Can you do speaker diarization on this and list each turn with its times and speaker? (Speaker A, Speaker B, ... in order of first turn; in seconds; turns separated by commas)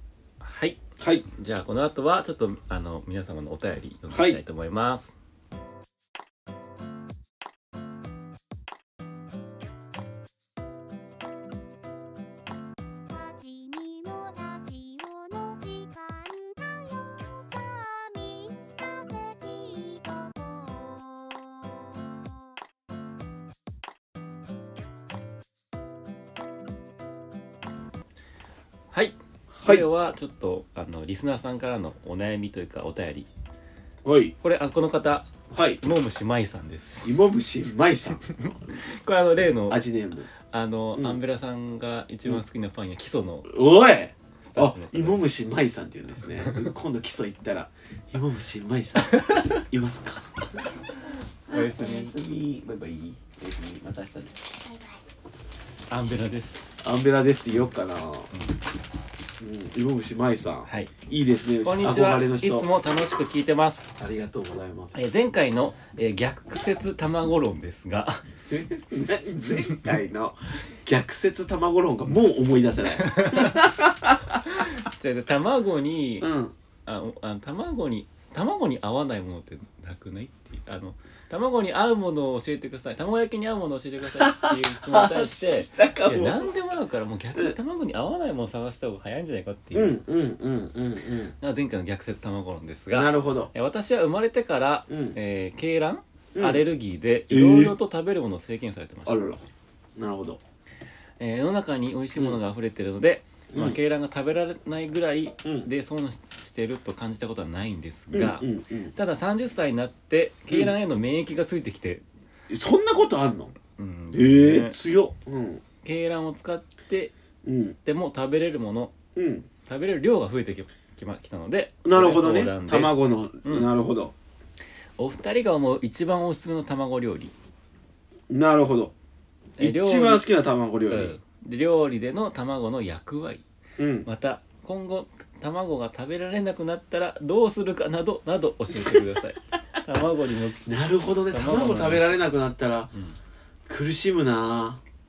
Speaker A: 0.4-5.2, Speaker B: 1.0-1.2, Speaker B: 4.1-4.4, Speaker C: 13.1-22.4, Speaker A: 28.9-33.3, Speaker B: 29.6-29.9, Speaker B: 34.0-34.3, Speaker A: 34.4-35.3, Speaker B: 35.5-35.8, Speaker A: 35.8-37.1, Speaker B: 37.0-38.7, Speaker A: 38.3-39.8, Speaker B: 39.7-40.3, Speaker A: 40.4-43.6, Speaker B: 41.0-41.2, Speaker B: 43.5-50.6, Speaker A: 44.5-45.3, Speaker A: 49.0-49.6, Speaker A: 51.5-52.1, Speaker B: 51.5-54.4, Speaker C: 54.6-55.0, Speaker A: 55.9-56.8, Speaker B: 56.8-58.3, Speaker B: 59.4-62.7, Speaker A: 60.7-60.9, Speaker A: 61.6-63.9, Speaker B: 64.0-65.0, Speaker A: 64.9-68.3, Speaker B: 68.5-74.4, Speaker A: 72.9-73.7, Speaker A: 74.5-76.3, Speaker B: 76.2-76.5, Speaker A: 76.9-90.0, Speaker B: 84.1-86.5, Speaker B: 89.7-91.3, Speaker A: 91.4-99.3, Speaker B: 92.9-93.5, Speaker B: 94.9-95.2, Speaker B: 96.3-96.7, Speaker B: 97.3-97.8, Speaker B: 99.1-99.4, Speaker B: 100.0-100.4, Speaker A: 101.2-112.0, Speaker B: 103.5-103.8, Speaker B: 105.4-105.7, Speaker B: 108.1-108.9, Speaker B: 112.5-113.5, Speaker A: 113.8-114.8, Speaker B: 114.1-115.6, Speaker A: 115.8-117.1, Speaker B: 117.4-117.8, Speaker A: 117.8-118.9, Speaker B: 119.2-119.5, Speaker A: 119.7-123.7, Speaker B: 121.8-124.1, Speaker A: 125.0-127.3, Speaker B: 128.3-128.9, Speaker A: 129.6-130.3, Speaker B: 129.6-131.2, Speaker A: 130.9-133.4, Speaker B: 133.8-134.1, Speaker A: 134.1-140.7, Speaker B: 138.7-139.1, Speaker B: 140.7-142.9, Speaker A: 141.3-142.3, Speaker B: 143.7-144.8